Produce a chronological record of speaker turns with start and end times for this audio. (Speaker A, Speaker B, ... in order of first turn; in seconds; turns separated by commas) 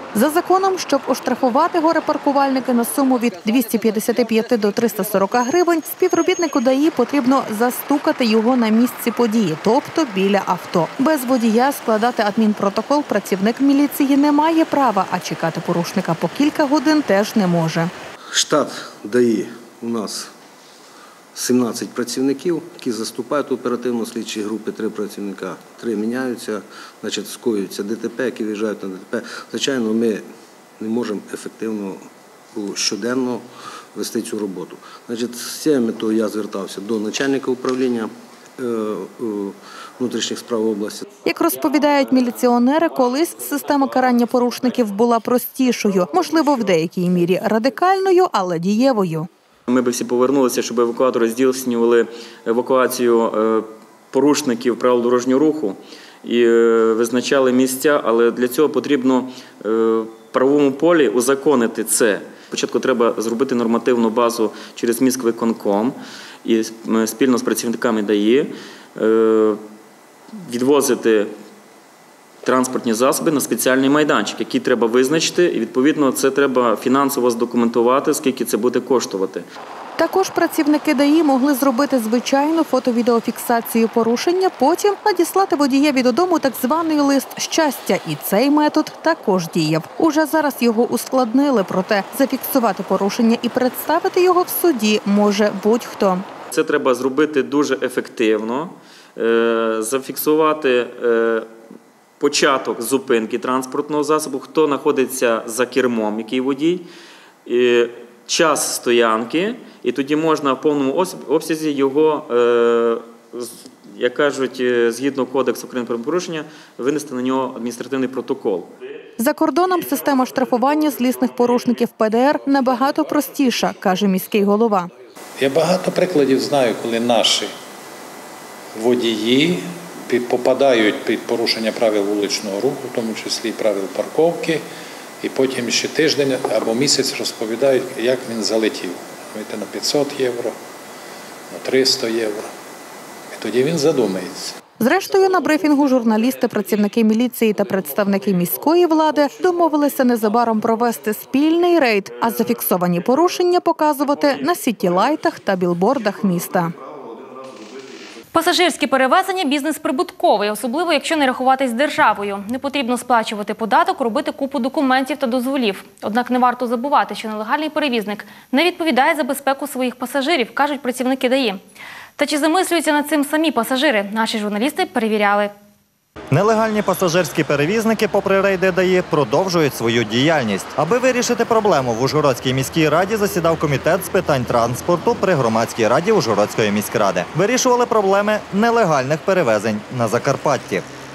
Speaker A: 0.1-17.9, Speaker B: 18.3-20.3, Speaker B: 21.3-30.2, Speaker B: 30.8-41.0, Speaker A: 41.2-49.3, Speaker C: 49.7-69.6, Speaker C: 70.3-71.3, Speaker C: 72.4-79.4, Speaker A: 80.0-96.2, Speaker C: 96.5-101.5, Speaker C: 102.2-106.8, Speaker C: 107.5-118.7, Speaker A: 119.2-124.9, Speaker D: 125.4-127.5, Speaker D: 128.7-134.6, Speaker D: 135.2-140.6, Speaker D: 141.5-142.5, Speaker D: 143.3-144.6, Speaker A: 144.8-156.7, Speaker E: 158.3-171.6, Speaker E: 172.2-175.5, Speaker F: 176.3-190.8